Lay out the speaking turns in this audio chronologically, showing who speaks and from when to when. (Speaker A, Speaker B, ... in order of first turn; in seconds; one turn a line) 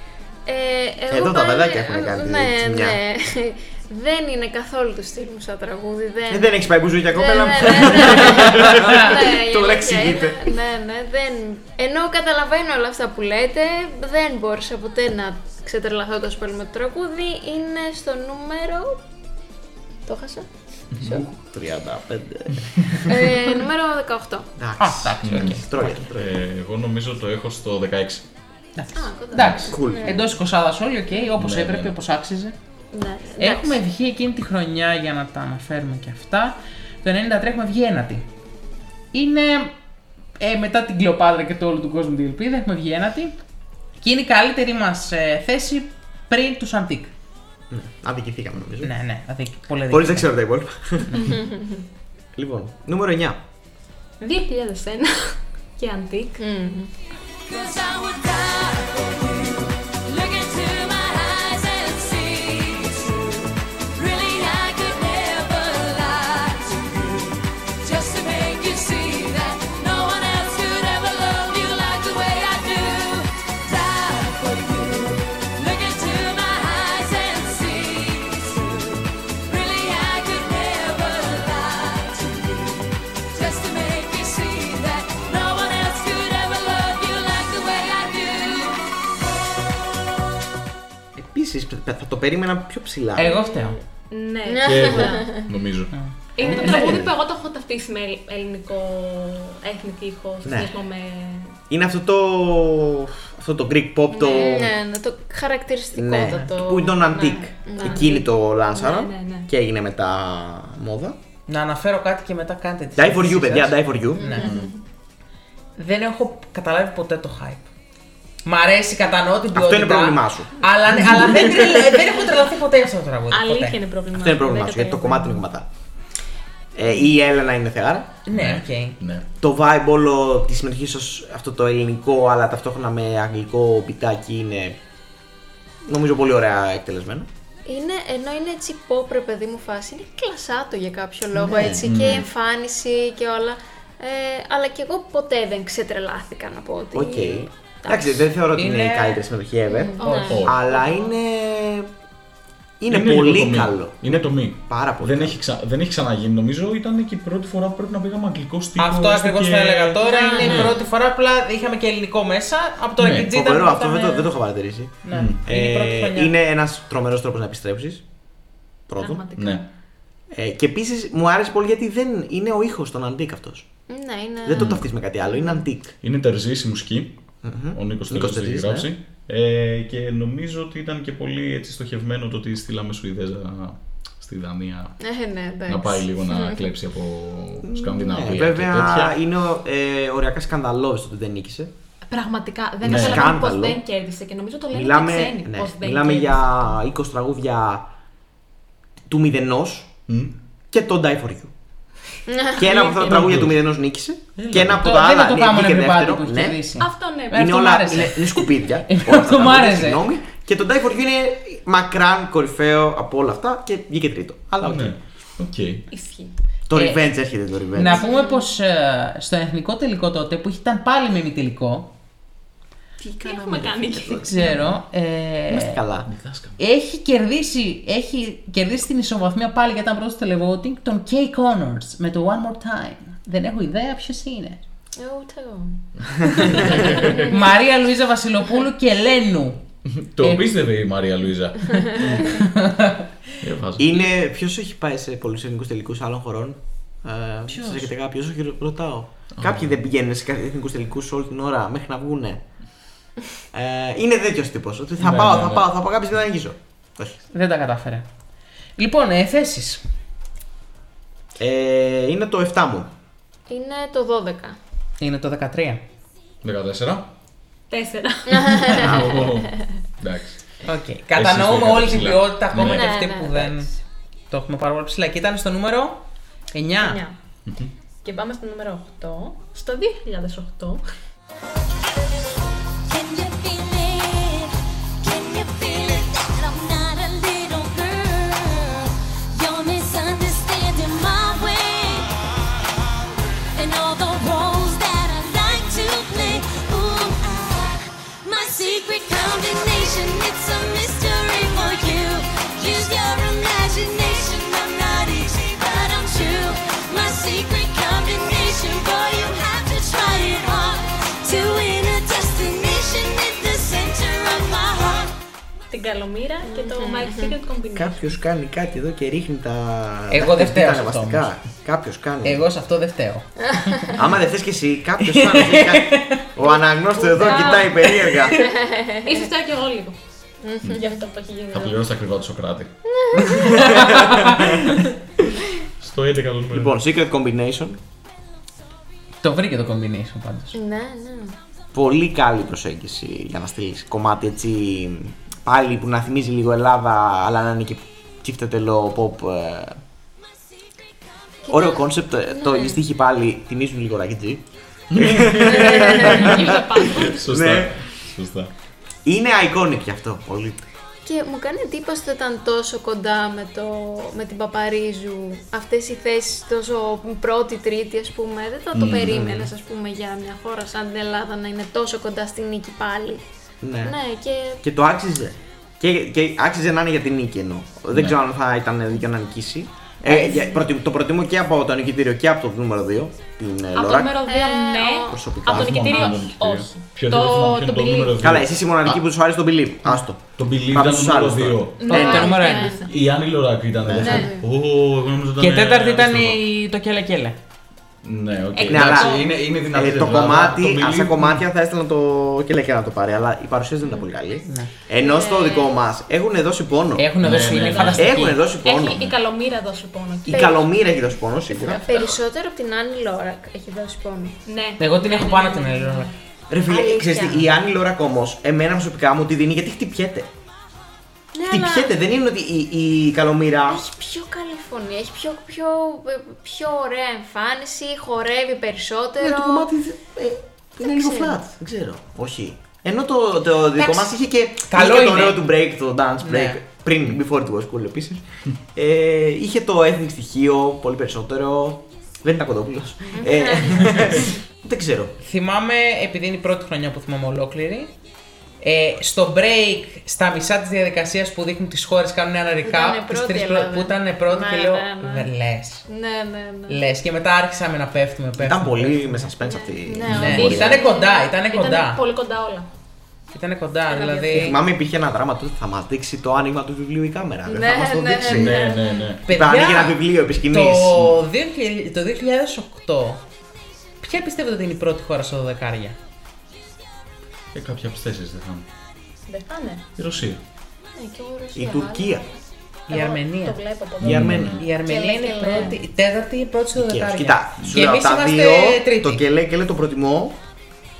Speaker A: 0.5-6.5
Speaker B: 1.1-3.0
Speaker B: 6.3-10.6
Speaker A: 7.1-19.0
Speaker A: 20.1-20.5
Speaker C: 20.9-21.2
Speaker A: 21.0-21.3
Speaker B: 21.1-23.3
Speaker A: 23.1-24.5
Speaker B: 24.6-26.4
Speaker D: 24.8-26.0
Speaker C: 25.2-28.3
Speaker D: 28.8-32.6
Speaker A: 28.9-30.3
Speaker C: 29.4-29.7
Speaker B: 29.6-30.3
Speaker C: 31.4-31.9
Speaker A: 32.9-33.8
Speaker D: 33.4-38.3
Speaker D: 39.1-39.8
Speaker D: 40.4-43.4
Speaker D: 44.0-47.1
Speaker B: 47.7-48.9
Speaker D: 48.8-50.3
Speaker B: 49.9-51.2
Speaker A: 51.3-51.6
Speaker B: 52.4-53.4
Speaker E: 54.2-56.4
Speaker A: 56.4-56.9
Speaker F: 57.5-63.4
Speaker F: 64.0-88.8
Speaker B: 91.2-93.4
Speaker D: 93.2-93.8
Speaker E: 93.4-95.4
Speaker A: 94.5-95.5
Speaker C: 94.6-96.0
Speaker D: 95.9-97.0
Speaker E: 96.4-101.6
Speaker B: 96.5-97.2
Speaker B: 100.5-100.8
Speaker B: 101.7-104.8
Speaker A: 104.1-108.2
Speaker B: 106.0-111.2
Speaker E: 107.8-109.5
Speaker D: 111.5-114.5
Speaker B: 113.0-114.3
Speaker A: 114.2-114.6
Speaker C: 114.4-114.7
Speaker D: 115.8-117.7
Speaker D: 118.5-123.8
Speaker B: 119.5-122.1
Speaker E: 123.3-125.4
Speaker B: 124.1-125.7
Speaker B: 126.8-128.2
Speaker D: 128.3-129.0
Speaker C: 128.3-129.3
Speaker B: 129.4-134.8
Speaker B: 135.8-137.3
Speaker A: 137.7-148.3
Speaker B: 141.3-141.9
Speaker C: 141.8-142.3
Speaker B: 146.9-151.9
Speaker D: 148.6-149.2
Speaker A: 149.7-150.4
Speaker E: 150.0-151.0
Speaker D: 150.1-150.4
Speaker C: 150.3-150.7
Speaker B: 152.8-155.4
Speaker C: 152.9-160.6
Speaker D: 158.8-164.3
Speaker E: 160.0-160.7
Speaker A: 160.1-160.9
Speaker C: 163.0-163.3
Speaker B: 163.3-168.0
Speaker D: 165.0-166.3
Speaker C: 165.1-165.4
Speaker B: 168.9-169.3
Speaker E: 169.0-169.6
Speaker C: 169.4-169.7
Speaker B: 170.3-173.7
Speaker A: 173.9-175.7
Speaker B: 174.4-175.9
Speaker C: 174.6-174.8
Speaker C: 176.0-177.2
Speaker B: 177.4-178.9
Speaker C: 177.7-184.9
Speaker A: 185.0-186.7
Speaker C: 185.7-189.1
Speaker B: 187.6-191.7
Speaker E: 192.1-196.8
Speaker B: 192.8-193.8
Speaker C: 192.8-193.4
Speaker B: 194.7-197.9
Speaker B: 199.1-200.0
Speaker C: 200.1-200.3
Speaker B: 200.7-201.5
Speaker A: 202.3-203.1
Speaker B: 202.6-206.6
Speaker C: 203.1-203.5
Speaker D: 204.4-210.0
Speaker C: 204.5-204.8
Speaker E: 206.8-208.1
Speaker B: 207.3-215.0
Speaker C: 214.6-215.9
Speaker E: 215.9-216.3
Speaker B: 216.7-218.0
Speaker D: 216.8-217.1
Speaker D: 217.7-221.9
Speaker E: 217.9-218.4
Speaker E: 223.0-224.6
Speaker B: 223.8-224.1
Speaker D: 224.1-225.8
Speaker B: 225.5-226.1
Speaker C: 226.1-226.6
Speaker D: 226.6-234.6
Speaker A: 235.0-237.5
Speaker C: 236.5-237.2
Speaker D: 237.3-239.6
Speaker C: 239.9-242.4
Speaker D: 240.2-240.5
Speaker D: 242.4-243.1
Speaker C: 243.4-244.1
Speaker B: 243.8-252.4
Speaker D: 247.5-247.9
Speaker C: 249.4-249.7
Speaker B: 253.5-257.2
Speaker C: 255.0-255.7
Speaker D: 257.3-258.1
Speaker D: 258.8-259.8
Speaker B: 261.4-262.9
Speaker A: 263.5-264.6
Speaker D: 265.0-265.8
Speaker C: 266.4-267.1
Speaker E: 267.7-268.5
Speaker A: 268.3-269.4
Speaker C: 268.7-270.4
Speaker B: 268.8-269.4
Speaker D: 270.6-273.7
Speaker C: 271.1-272.9
Speaker A: 272.6-273.7
Speaker D: 274.3-277.0
Speaker E: 276.8-277.2
Speaker C: 277.4-277.7
Speaker E: 278.0-280.8
Speaker F: 282.9-292.1
Speaker F: 293.6-315.1
Speaker E: 315.7-318.1
Speaker A: 316.5-317.3
Speaker B: 317.8-322.4
Speaker D: 320.1-321.3
Speaker D: 322.2-323.9
Speaker A: 323.5-324.0
Speaker B: 323.9-328.4
Speaker D: 325.0-326.2
Speaker E: 327.2-327.5
Speaker A: 327.2-329.3
Speaker E: 329.1-330.0
Speaker A: 330.4-331.0
Speaker E: 330.7-331.9
Speaker C: 331.5-332.8
Speaker A: 332.9-333.8
Speaker B: 333.2-334.6
Speaker D: 333.6-334.4
Speaker C: 334.2-334.7
Speaker C: 335.8-336.7
Speaker B: 336.5-337.8
Speaker D: 339.2-340.6
Speaker A: 340.5-341.4
Speaker B: 341.7-349.8
Speaker A: 351.5-351.8
Speaker B: 351.5-357.8
Speaker A: 352.3-352.8
Speaker C: 354.9-358.5
Speaker A: 355.6-356.3
Speaker E: 356.2-357.4
Speaker B: 359.1-360.6
Speaker A: 361.1-373.2
Speaker C: 368.7-369.1
Speaker B: 369.0-369.5
Speaker B: 373.6-374.0
Speaker A: 373.8-374.6
Speaker B: 374.6-384.2
Speaker E: 380.1-380.6
Speaker E: 383.7-388.2
Speaker A: 384.3-385.2
Speaker B: 385.1-386.1
Speaker C: 385.5-389.0
Speaker B: 388.2-392.3
Speaker C: 390.4-392.1
Speaker E: 391.8-392.9
Speaker D: 391.9-392.7
Speaker A: 391.9-392.9
Speaker C: 392.8-396.4
Speaker B: 393.8-394.3
Speaker A: 393.9-394.4
Speaker D: 395.4-397.4
Speaker C: 398.0-401.4
Speaker E: 398.6-399.3
Speaker B: 398.7-407.1
Speaker A: 405.0-405.8
Speaker D: 407.0-408.4
Speaker C: 407.2-408.2
Speaker B: 407.7-409.1
Speaker E: 408.6-410.7
Speaker B: 410.3-411.9
Speaker E: 411.5-412.2
Speaker A: 411.9-414.4
Speaker E: 414.5-416.1
Speaker D: 414.8-416.1
Speaker B: 416.5-420.3
Speaker E: 416.7-417.4
Speaker A: 421.3-421.9
Speaker B: 421.4-423.8
Speaker A: 423.7-429.7
Speaker B: 429.2-438.2
Speaker A: 430.9-431.4
Speaker D: 433.8-435.5
Speaker D: 436.2-436.6
Speaker B: 438.8-445.1
Speaker A: 443.2-444.1
Speaker D: 445.2-447.9
Speaker D: 448.6-455.9
Speaker A: 452.6-455.3
Speaker A: 455.9-456.8
Speaker D: 456.7-459.3
Speaker B: 458.4-460.8
Speaker A: 459.4-461.2
Speaker C: 460.1-460.5
Speaker D: 460.1-462.0
Speaker E: 460.5-462.7
Speaker D: 463.3-464.6
Speaker A: 463.9-464.6
Speaker B: 464.3-468.6
Speaker A: 467.5-469.1
Speaker C: 468.2-469.2
Speaker B: 469.3-471.2
Speaker D: 469.3-473.2
Speaker D: 474.0-476.0
Speaker C: 477.5-478.7
Speaker E: 479.3-479.9
Speaker C: 480.0-480.4
Speaker A: 481.0-482.2
Speaker B: 481.6-482.3
Speaker E: 482.9-484.3
Speaker D: 482.9-483.6
Speaker C: 484.0-484.6
Speaker B: 484.0-484.6
Speaker D: 484.3-489.2
Speaker A: 484.5-485.8
Speaker B: 486.8-490.4